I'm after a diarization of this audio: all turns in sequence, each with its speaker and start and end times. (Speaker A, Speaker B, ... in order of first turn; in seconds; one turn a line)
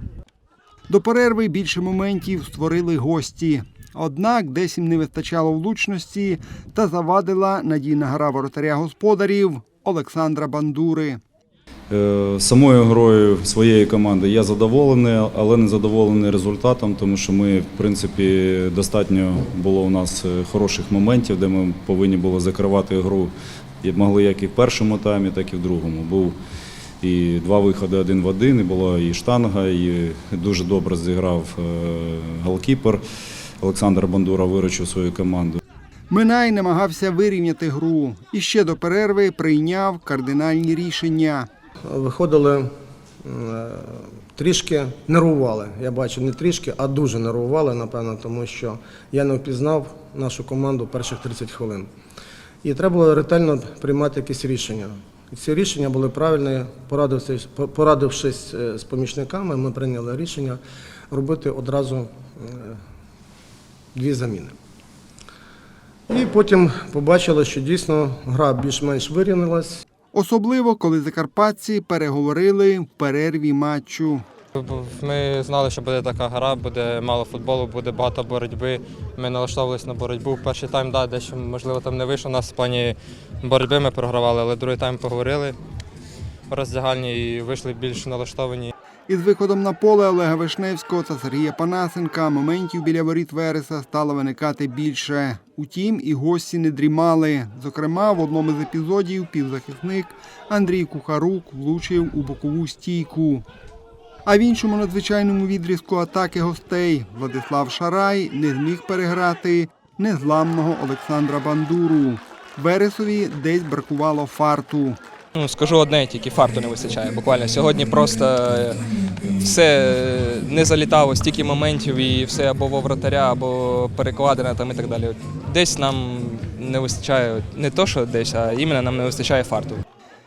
Speaker A: 0.9-11.2
Speaker B: 11.9-26.4
Speaker B: 27.0-33.0
Speaker B: 33.6-35.6
Speaker A: 36.1-41.5
Speaker C: 41.9-42.7
Speaker C: 43.2-51.9
Speaker C: 52.6-62.8
Speaker C: 63.9-64.5
Speaker C: 66.1-69.8
Speaker A: 70.1-74.2
Speaker D: 74.5-85.6
Speaker D: 86.5-88.7
Speaker A: 89.1-103.4
Speaker A: 104.2-115.0
Speaker E: 115.3-118.8
Speaker E: 119.4-129.8